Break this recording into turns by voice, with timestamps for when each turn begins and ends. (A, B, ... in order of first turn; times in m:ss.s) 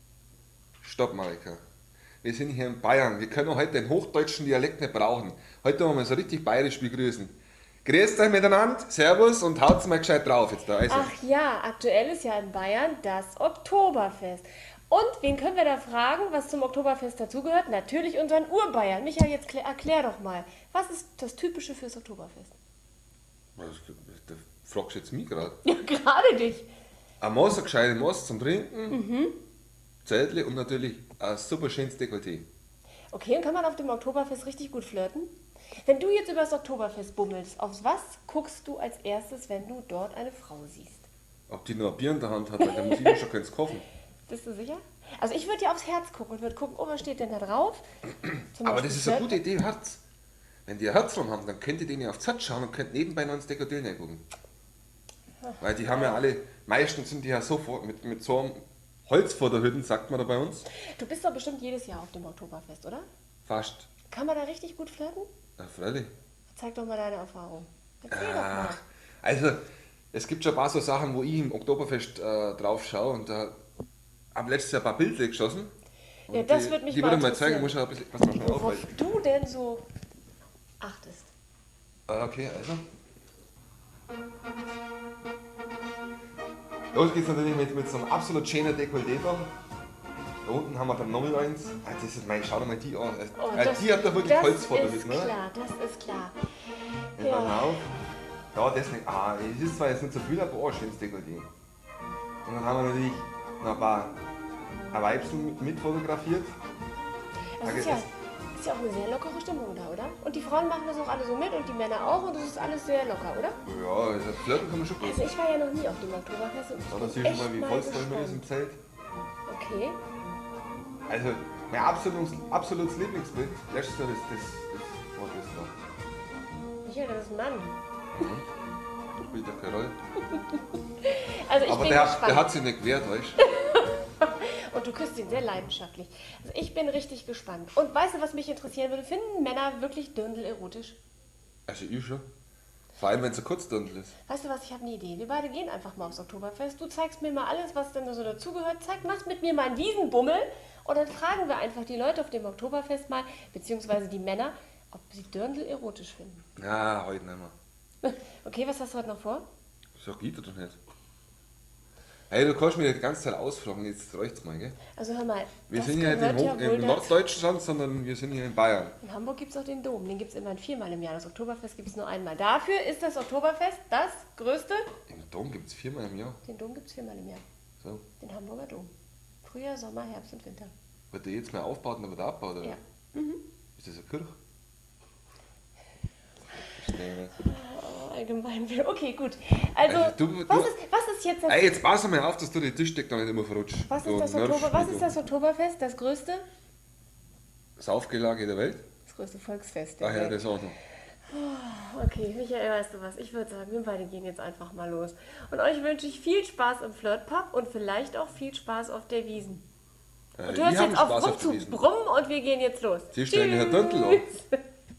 0:00.8-0:01.6 A
0:02.2-0:11.1 A
0:10.9-0:22.5 B
0:23.6-0:25.6 A
0:25.6-0:26.7 B
0:27.2-0:29.0 A
0:28.9-0:29.4 B
0:30.0-0:32.5 A
0:33.1-0:35.3 B
0:35.8-0:41.1 B
0:41.5-0:43.8 A
0:42.6-0:43.3 B
0:44.3-0:47.8 B
0:48.5-0:49.4 B
0:48.6-0:50.0 A
0:50.6-0:54.2 A
0:55.4-0:56.2 B
0:55.6-1:00.6 A
1:00.7-1:03.0 B
1:03.4-1:03.9 A
1:04.1-1:05.3 B
1:05.6-1:06.1 A
1:06.5-1:08.8 B
1:08.1-1:09.6 A
1:10.1-1:13.6 A
1:14.3-1:15.7 A
1:16.3-1:18.9 A
1:16.3-1:19.8 B
1:20.8-1:21.3 B
1:22.1-1:22.8 A
1:26.9-1:29.5 A
1:30.4-1:35.4 A
1:33.4-1:36.4 B
1:37.2-1:37.9 A
1:37.2-1:37.8 B
1:38.5-1:41.5 A
1:42.4-1:44.2 A
1:44.9-1:46.5 A
1:47.6-1:53.6 B
1:47.6-1:48.1 A
1:53.6-1:55.3 A
1:55.0-1:58.4 B
1:56.9-1:58.8 A
1:59.5-2:00.0 B
2:01.1-2:05.7 A
2:06.8-2:07.8 B
2:08.1-2:08.4 A
2:09.2-2:09.9 A
2:11.0-2:12.5 B
2:11.6-2:13.4 A
2:13.4-2:21.0 B
2:21.7-2:22.2 A
2:23.0-2:24.1 A
2:24.3-2:36.4 B
2:36.6-2:37.5 A
2:38.0-2:39.4 B
2:40.0-2:40.8 A
2:42.3-2:44.8 A
2:44.9-2:47.1 B
2:45.7-2:49.0 A
2:49.0-2:54.9 B
2:55.1-2:56.4 A
2:56.4-2:57.4 B
2:58.2-2:58.9 B
2:59.4-3:00.7 B
3:01.1-3:02.8 A
3:02.6-3:03.4 B
3:03.8-3:04.4 A
3:06.8-3:07.4 A
3:07.4-3:11.8 B
3:09.8-3:10.7 A
3:11.5-3:15.1 A
3:13.9-3:16.4 B
3:17.8-3:18.8 A
3:19.0-3:20.4 B
3:20.0-3:20.8 A
3:21.3-3:29.6 B
3:30.4-3:31.8 A
3:30.4-3:34.6 B
3:33.1-3:34.3 A